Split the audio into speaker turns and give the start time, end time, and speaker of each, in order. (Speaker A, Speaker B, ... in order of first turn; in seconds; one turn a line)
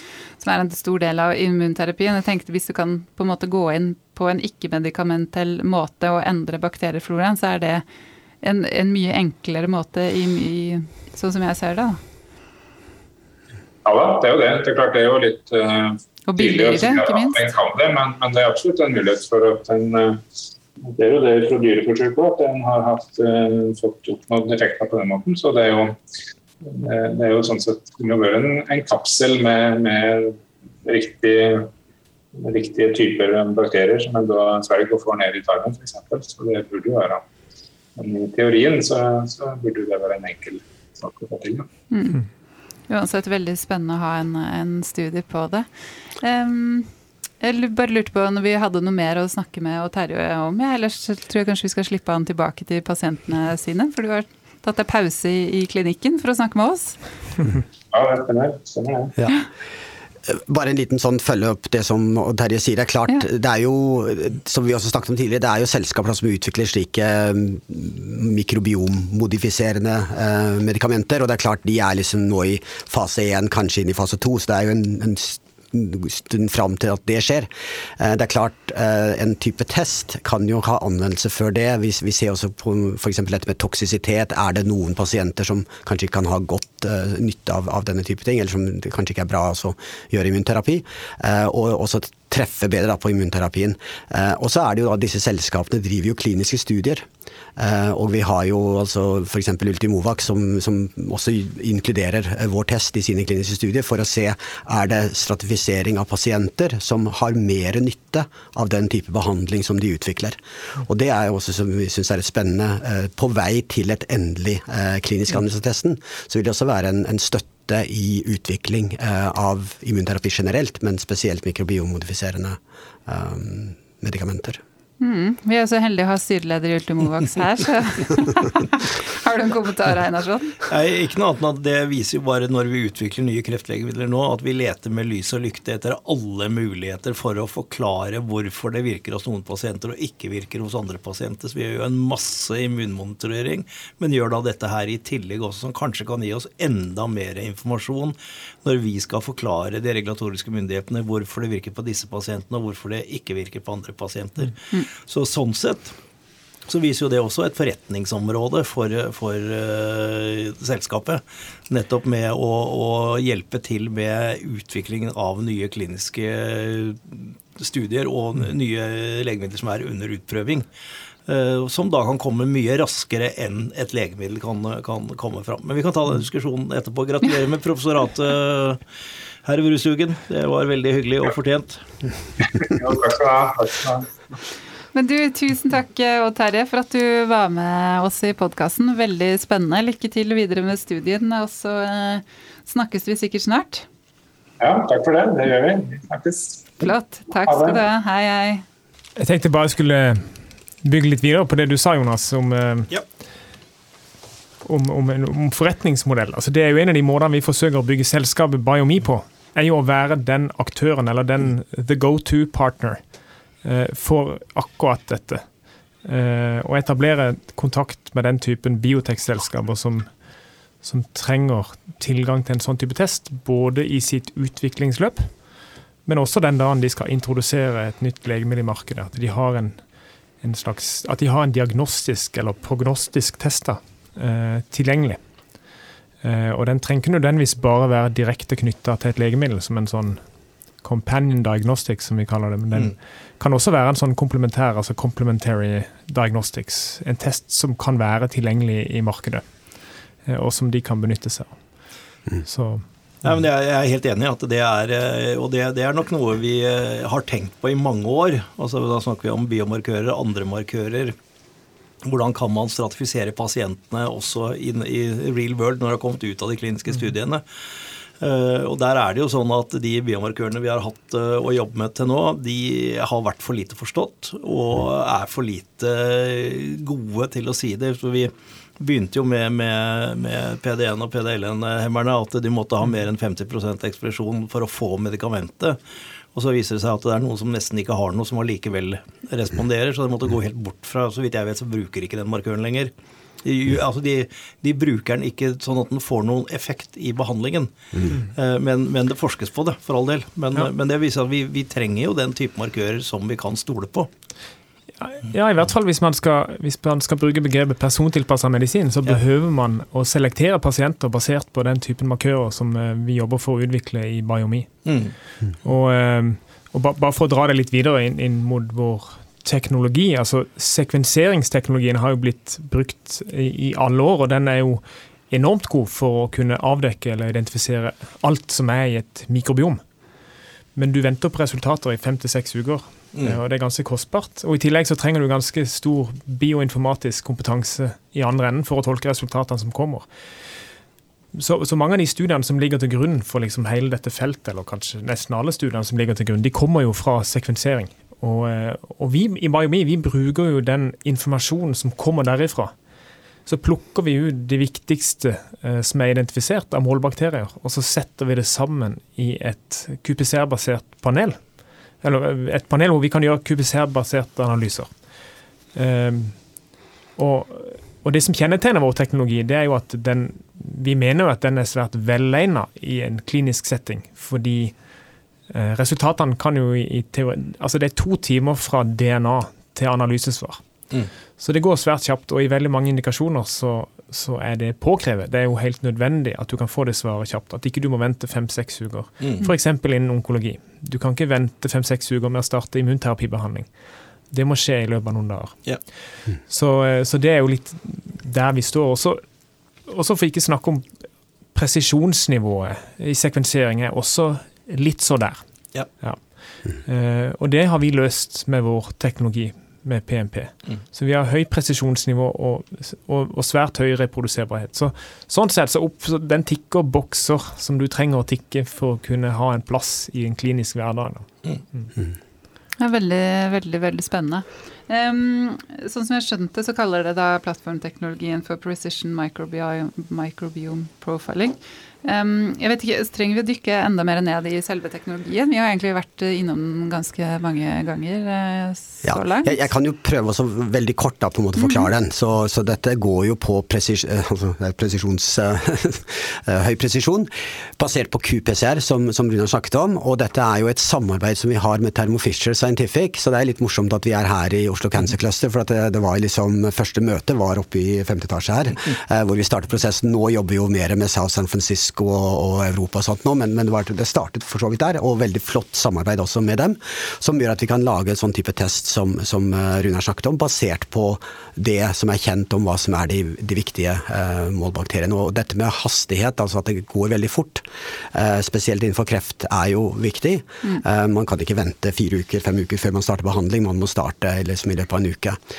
Speaker A: 0.3-7.8
Speaker A: 8.4-12.0
Speaker B: 13.8-20.2
Speaker A: 16.3-17.4
Speaker B: 20.9-26.0
Speaker B: 26.6-31.7
Speaker B: 32.4-37.2
Speaker B: 38.0-41.7
Speaker A: 41.9-42.2
Speaker A: 42.9-57.0
Speaker B: 57.9-59.1
Speaker C: 60.3-77.5
Speaker C: 78.0-124.6
Speaker A: 125.0-130.6
Speaker D: 130.7-155.9
Speaker D: 156.7-170.7
Speaker D: 171.3-178.8
Speaker D: 179.4-181.9
Speaker B: 182.4-184.1
Speaker A: 184.9-193.9
Speaker B: 194.6-196.8
Speaker A: 196.8-198.6
Speaker B: 197.5-197.8
Speaker E: 199.2-202.9
Speaker E: 204.6-213.0
Speaker E: 213.6-215.5
Speaker E: 216.0-220.2
Speaker E: 220.8-225.3
Speaker E: 226.1-229.9
Speaker E: 230.4-235.2
Speaker E: 236.2-240.2
Speaker E: 240.8-249.4
Speaker E: 250.3-251.6
Speaker E: 252.4-252.8
Speaker D: 253.2-261.1
Speaker D: 262.0-267.4
Speaker D: 268.2-285.8
Speaker D: 286.3-292.9
Speaker D: 293.4-304.1
Speaker E: 305.0-314.8
Speaker D: 314.9-315.1
Speaker E: 315.6-329.8
Speaker E: 330.8-340.1
Speaker D: 333.1-333.4
Speaker E: 341.4-352.7
Speaker E: 353.5-361.5
Speaker E: 362.0-365.0
Speaker E: 365.7-366.5
Speaker E: 367.2-374.8
Speaker E: 375.5-380.6
Speaker E: 381.4-393.7
Speaker E: 394.3-395.6
Speaker E: 396.5-399.2
Speaker E: 399.8-400.9
Speaker E: 401.5-405.4
Speaker E: 406.0-421.9
Speaker A: 422.8-439.6
Speaker C: 439.0-485.4
Speaker A: 441.6-441.9